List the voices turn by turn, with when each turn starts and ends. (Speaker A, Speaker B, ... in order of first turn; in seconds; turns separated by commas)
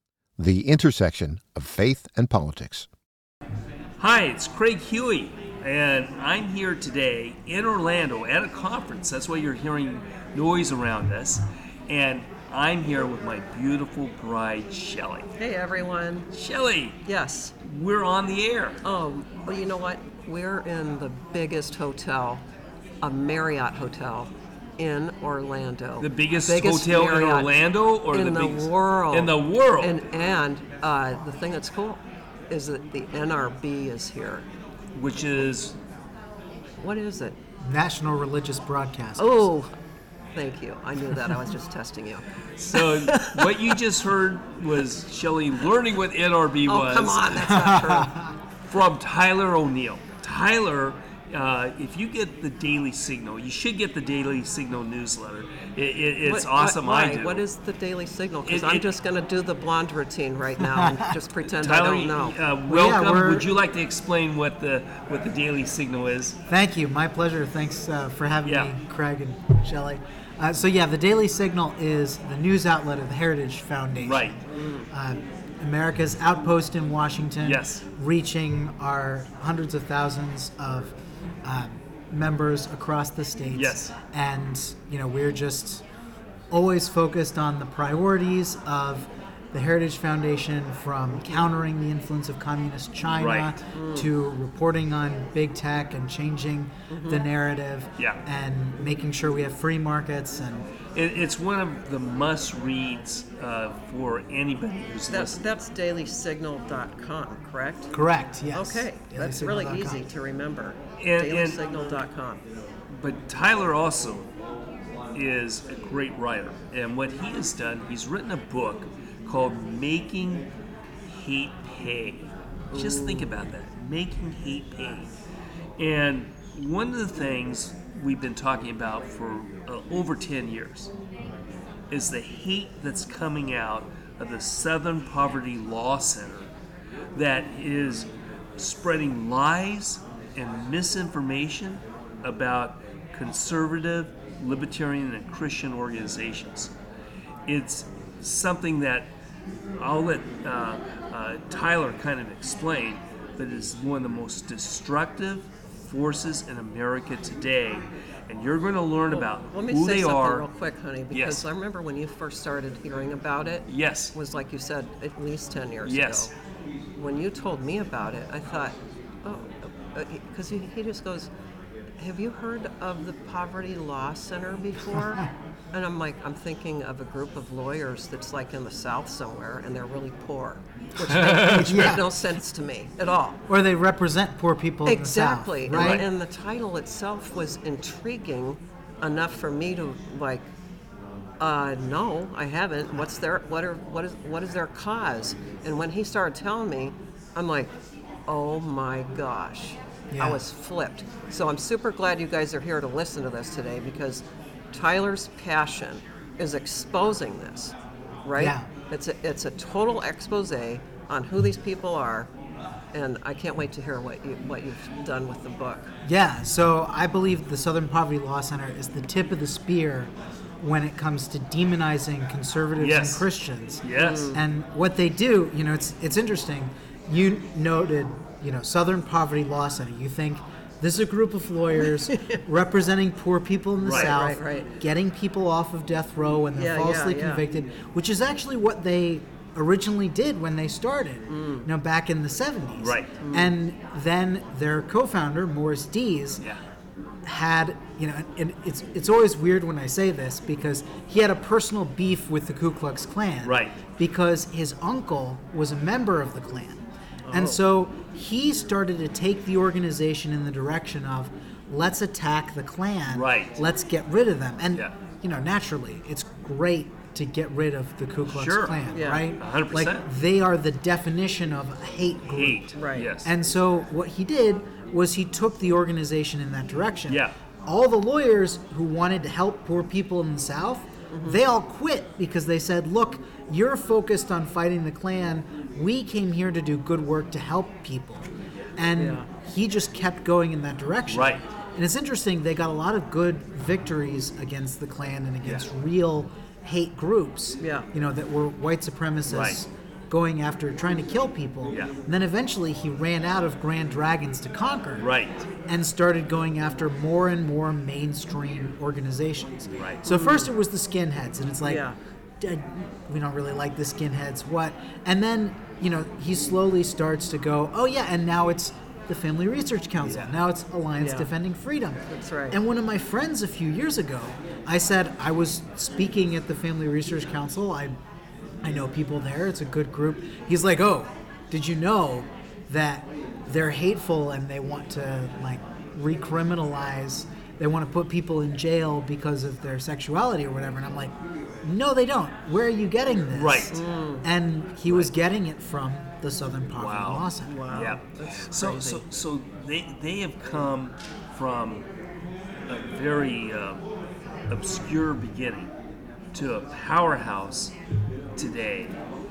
Speaker A: 0.4-2.9, Speaker B: 4.0-15.3, Speaker C: 15.4-16.3, Speaker B: 16.3-17.0, Speaker C: 17.1-17.5, Speaker B: 17.6-18.8, Speaker C: 18.8-22.4, Speaker C: 23.0-34.5, Speaker B: 26.0-30.0, Speaker B: 35.0-35.8, Speaker C: 36.8-37.4, Speaker D: 37.6-39.5, Speaker C: 39.2-39.7, Speaker C: 40.4-43.7, Speaker B: 42.6-47.4, Speaker C: 46.7-48.1, Speaker D: 47.3-48.3, Speaker B: 48.7-57.5, Speaker C: 56.2-62.4, Speaker B: 58.5-58.9, Speaker D: 60.6-61.0, Speaker B: 61.5-66.4, Speaker D: 62.7-63.5, Speaker D: 66.5-85.8, Speaker B: 68.5-68.7, Speaker B: 74.0-74.4, Speaker C: 74.6-74.9, Speaker B: 77.4-77.8, Speaker B: 83.5-83.9, Speaker D: 86.5-100.7, Speaker C: 91.1-91.5, Speaker B: 93.1-93.6, Speaker C: 93.7-94.1, Speaker C: 96.9-97.3, Speaker B: 101.0-105.4, Speaker C: 105.1-107.9, Speaker D: 107.9-110.0, Speaker C: 108.5-112.4, Speaker B: 111.0-111.6, Speaker B: 112.9-114.3, Speaker B: 115.1-120.5, Speaker B: 121.1-125.1, Speaker C: 122.7-123.4, Speaker B: 125.8-130.9, Speaker B: 131.9-136.5, Speaker B: 137.2-146.7, Speaker B: 147.5-149.1, Speaker B: 149.8-160.5, Speaker C: 159.1-166.3, Speaker B: 161.1-161.5, Speaker B: 163.7-164.2, Speaker B: 165.8-166.3, Speaker C: 167.0-171.3, Speaker C: 172.0-183.4, Speaker B: 181.1-181.9, Speaker D: 181.5-182.1, Speaker D: 183.5-186.1, Speaker C: 184.8-190.5, Speaker B: 185.7-186.1, Speaker C: 191.4-197.7, Speaker C: 198.3-212.3, Speaker D: 200.1-200.4, Speaker D: 208.4-208.7, Speaker C: 212.9-215.9, Speaker D: 216.0-246.4, Speaker B: 222.8-223.3, Speaker B: 223.8-224.3, Speaker C: 223.9-224.4, Speaker C: 232.1-232.4, Speaker B: 233.8-234.2, Speaker C: 233.9-234.7, Speaker C: 236.5-237.4, Speaker C: 241.3-241.7, Speaker B: 242.8-243.1, Speaker C: 243.2-243.5, Speaker D: 247.2-305.1, Speaker B: 253.4-253.8, Speaker C: 257.3-257.6, Speaker B: 263.1-263.6, Speaker B: 268.3-268.8, Speaker C: 268.9-269.3, Speaker B: 269.4-270.1, Speaker B: 272.3-273.3, Speaker C: 272.8-273.1, Speaker B: 277.1-277.3, Speaker C: 281.1-281.4, Speaker C: 289.0-289.3, Speaker B: 291.1-291.4, Speaker C: 297.6-297.9, Speaker B: 299.3-299.6, Speaker B: 304.9-305.5, Speaker D: 305.7-311.9, Speaker B: 309.8-310.1, Speaker C: 310.1-310.5, Speaker C: 311.6-312.0, Speaker D: 312.4-328.0, Speaker B: 320.0-320.4, Speaker C: 321.0-321.3, Speaker C: 322.1-322.6, Speaker D: 328.6-347.6, Speaker B: 343.3-343.8, Speaker C: 343.7-344.3, Speaker B: 344.9-345.1, Speaker B: 346.7-351.9, Speaker C: 347.4-349.0, Speaker B: 352.7-353.9, Speaker B: 354.5-355.7, Speaker B: 356.3-357.7, Speaker B: 358.4-359.0